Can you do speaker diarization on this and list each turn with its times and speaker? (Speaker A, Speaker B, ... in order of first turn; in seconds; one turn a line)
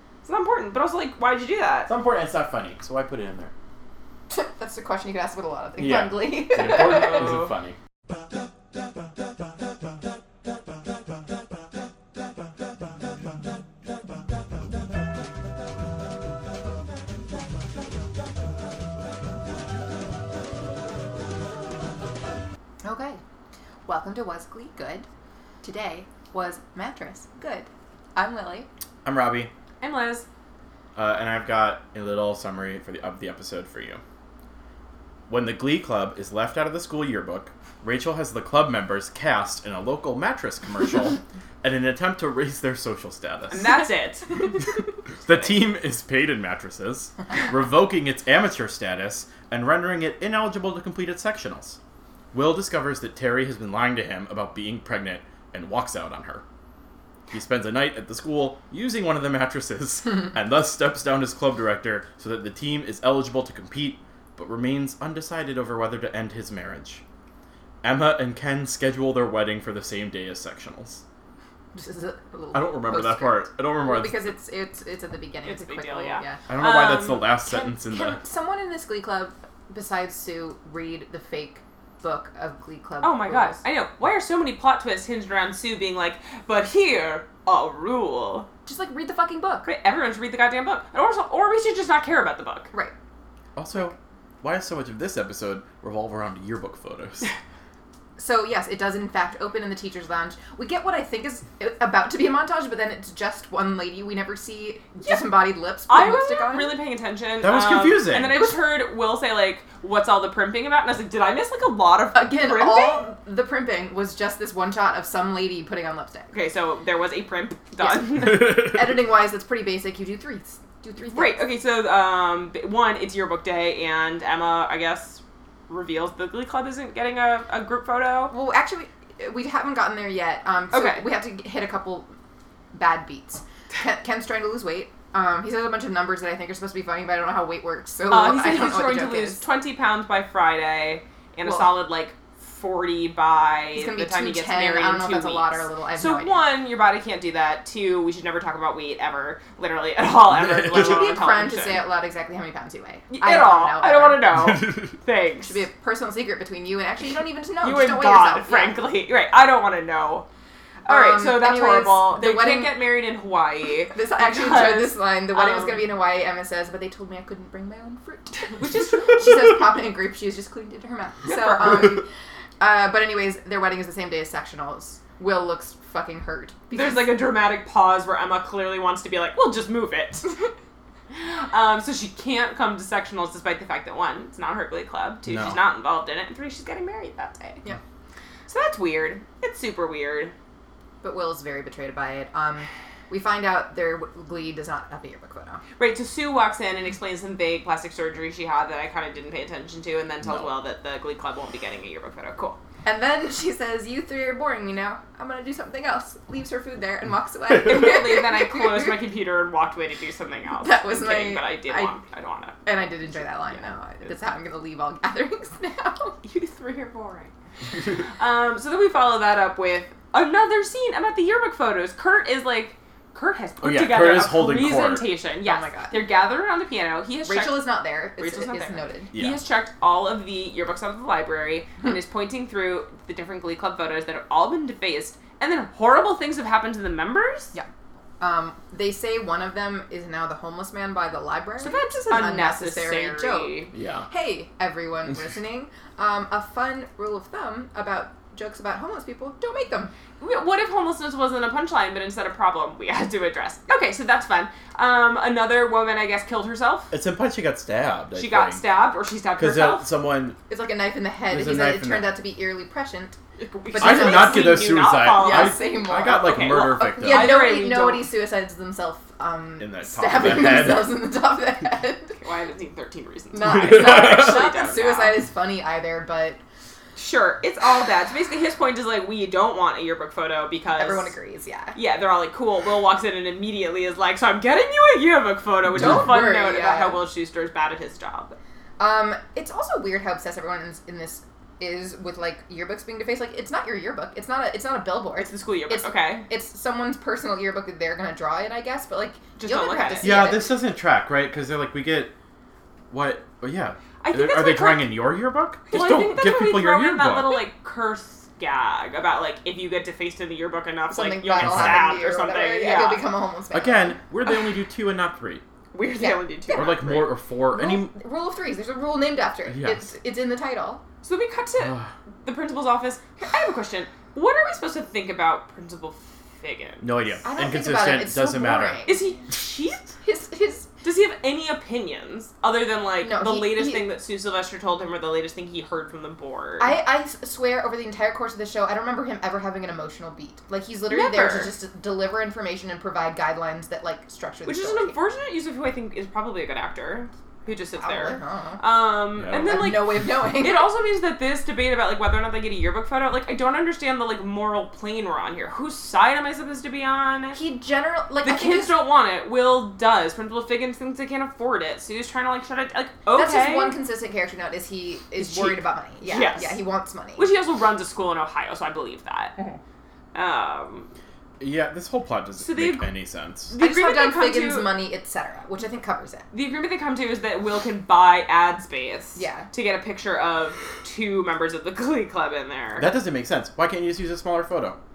Speaker A: 0.2-1.9
Speaker B: 1.9-3.5
Speaker C: 4.3-7.3
Speaker B: 5.8-7.8
Speaker A: 6.6-7.5
Speaker C: 22.8-23.2
Speaker C: 23.9-25.1
Speaker C: 25.6-28.7
Speaker B: 29.0-29.5
Speaker A: 29.8-30.2
Speaker B: 30.9-34.0
Speaker B: 35.3-43.8
Speaker A: 43.5-44.3
Speaker B: 45.2-51.8
Speaker B: 52.3-56.4
Speaker B: 57.3-67.0
Speaker B: 67.8-71.0
Speaker C: 71.7-76.4
Speaker B: 72.5-74.3
Speaker A: 75.4-77.3
Speaker B: 76.5-78.2
Speaker C: 77.4-83.6
Speaker A: 83.0-88.5
Speaker C: 88.7-89.7
Speaker A: 89.6-92.7
Speaker B: 93.5-97.2
Speaker C: 98.2-106.8
Speaker A: 105.9-113.1
Speaker B: 107.4-108.5
Speaker C: 112.1-116.3
Speaker A: 116.3-118.6
Speaker C: 117.8-121.5
Speaker A: 121.1-128.3
Speaker C: 128.3-132.1
Speaker A: 130.7-131.1
Speaker C: 132.7-139.4
Speaker A: 138.1-151.8
Speaker C: 141.4-141.7
Speaker C: 143.7-146.4
Speaker B: 150.3-151.1
Speaker C: 150.7-154.3
Speaker A: 153.1-155.6
Speaker B: 154.3-154.9
Speaker C: 155.4-158.8
Speaker A: 157.6-160.2
Speaker A: 160.8-165.9
Speaker C: 160.9-162.8
Speaker C: 163.9-172.1
Speaker A: 168.6-169.6
Speaker A: 171.2-172.0
Speaker C: 172.6-177.1
Speaker A: 176.7-180.4
Speaker A: 181.1-187.6
Speaker B: 185.2-185.6
Speaker A: 188.5-190.3
Speaker C: 191.0-195.6
Speaker A: 195.8-202.6
Speaker B: 200.2-200.5
Speaker C: 202.8-208.9
Speaker A: 207.5-214.3
Speaker C: 210.6-211.9
Speaker C: 212.6-216.2
Speaker A: 216.2-217.3
Speaker A: 218.0-237.5
Speaker B: 223.6-225.1
Speaker C: 225.4-226.1
Speaker C: 227.2-229.1
Speaker B: 229.1-229.4
Speaker C: 238.2-249.9
Speaker A: 241.6-243.7
Speaker B: 243.7-244.1
Speaker A: 250.2-256.9
Speaker B: 256.9-258.6
Speaker A: 258.1-259.9
Speaker B: 259.4-260.4
Speaker C: 260.5-272.1
Speaker B: 261.3-262.1
Speaker A: 263.4-268.1
Speaker B: 263.8-267.4
Speaker B: 269.6-271.0
Speaker A: 272.1-275.2
Speaker C: 273.3-276.4
Speaker B: 273.4-274.4
Speaker A: 276.9-281.1
Speaker C: 280.8-281.8
Speaker A: 281.7-288.4
Speaker B: 285.7-286.1
Speaker C: 285.8-287.0
Speaker C: 288.8-300.6
Speaker A: 295.2-296.3
Speaker A: 299.4-300.2
Speaker B: 300.0-302.1
Speaker B: 302.9-307.4
Speaker A: 304.0-305.0
Speaker A: 305.7-313.0
Speaker C: 310.9-314.0
Speaker B: 311.4-312.0
Speaker B: 313.5-315.4
Speaker A: 315.7-317.1
Speaker C: 316.0-320.8
Speaker B: 316.5-317.9
Speaker B: 319.5-319.9
Speaker A: 321.0-327.2
Speaker B: 321.6-321.9
Speaker B: 326.8-328.9
Speaker C: 327.2-329.0
Speaker A: 328.9-329.9
Speaker C: 330.0-330.7
Speaker A: 330.8-336.8
Speaker C: 333.0-333.8
Speaker C: 336.6-344.9
Speaker A: 340.9-341.5
Speaker A: 344.4-357.4
Speaker C: 347.8-348.6
Speaker B: 349.1-349.8
Speaker C: 349.4-350.7
Speaker C: 357.3-358.8
Speaker A: 358.2-363.8
Speaker C: 363.1-367.3
Speaker A: 365.2-366.6
Speaker A: 367.2-369.3
Speaker A: 370.1-370.9
Speaker B: 371.4-373.5
Speaker A: 372.4-372.9
Speaker A: 373.5-374.7
Speaker C: 373.6-376.3
Speaker A: 376.3-382.9
Speaker C: 379.1-379.5
Speaker B: 382.8-384.8